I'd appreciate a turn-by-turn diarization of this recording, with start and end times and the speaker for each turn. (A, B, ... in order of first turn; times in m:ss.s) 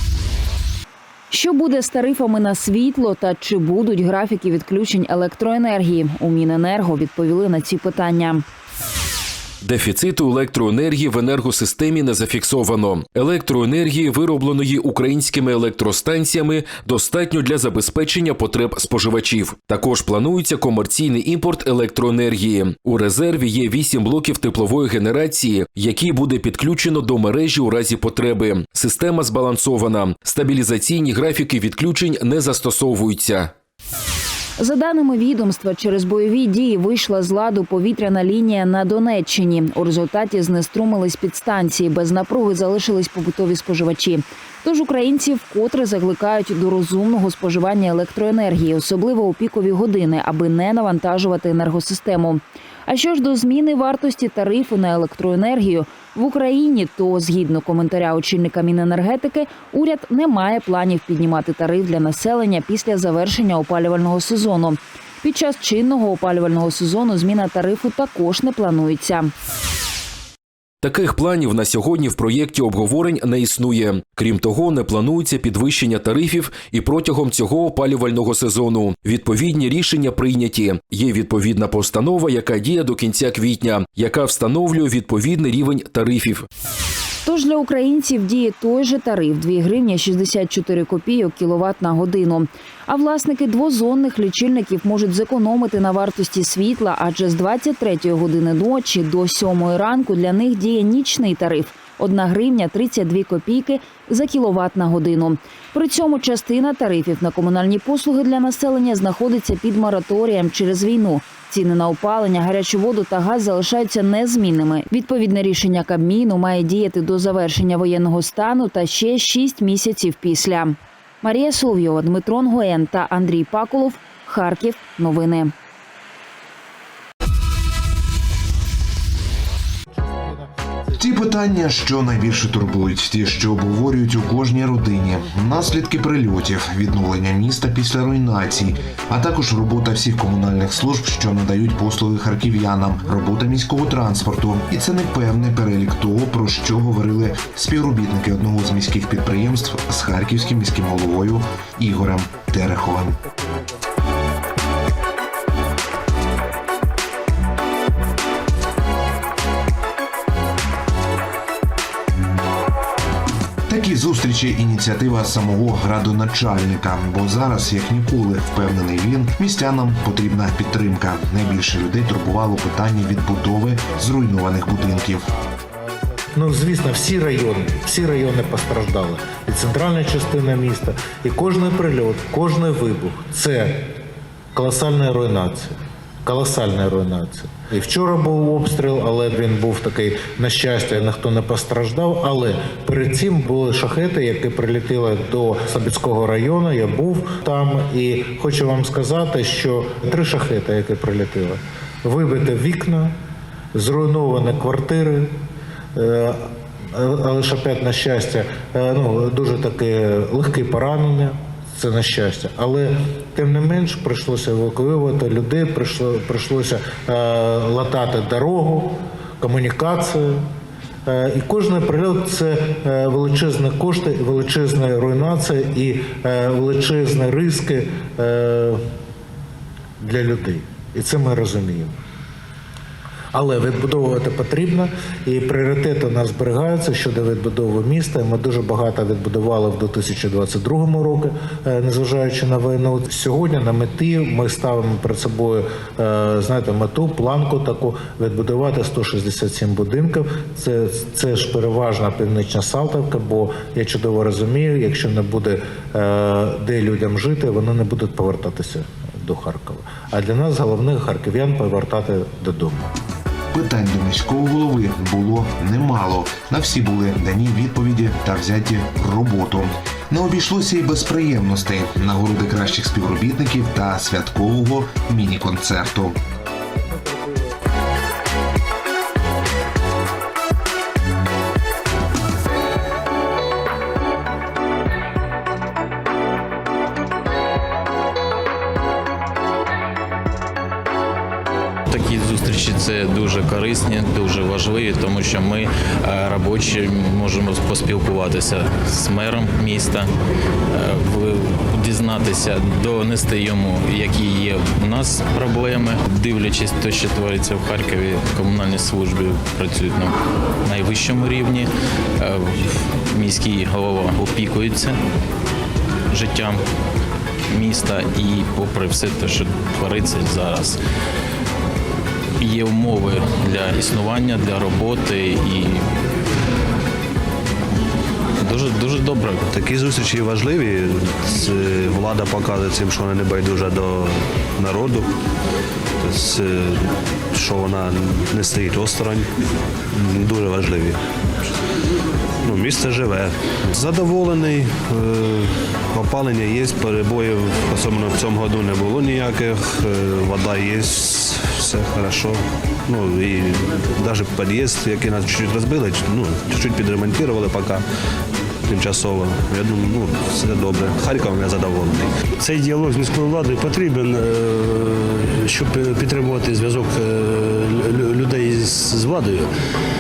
0:01.3-0:08.4 A
0:09.6-0:33.5 B
0:34.6-1:09.3 A
1:10.8-1:26.5 B
1:27.2-2:05.5 A
2:11.0-2:33.2 C
2:43.7-2:55.3 C
2:56.3-3:03.9 D
3:04.6-3:05.7 D
3:06.2-3:23.1 D
3:23.7-3:25.4 D
3:26.0-3:40.4 D
3:41.1-3:48.8 D
3:50.0-3:51.9 D
3:53.3-4:22.9 D
4:23.5-4:36.2 C
4:51.9-5:00.1 E
5:00.7-5:15.0 E
5:16.1-5:16.6 E
5:17.5-5:20.8 E
5:22.4-5:25.9 E
5:28.4-5:29.5 E
5:29.5-5:34.1 F
5:30.0-5:35.0 G
5:34.6-5:35.1 F
5:36.0-5:36.7 F
5:36.0-5:36.8 G
5:37.4-5:39.2 F
5:37.4-5:39.2 G
5:40.0-5:41.0 G
5:40.0-5:41.0 F
5:42.5-5:43.2 G
5:42.5-5:44.9 F
5:43.8-5:57.8 G
5:45.9-5:52.4 F
5:52.9-5:57.8 F
5:58.7-6:02.1 F
5:58.7-6:09.5 G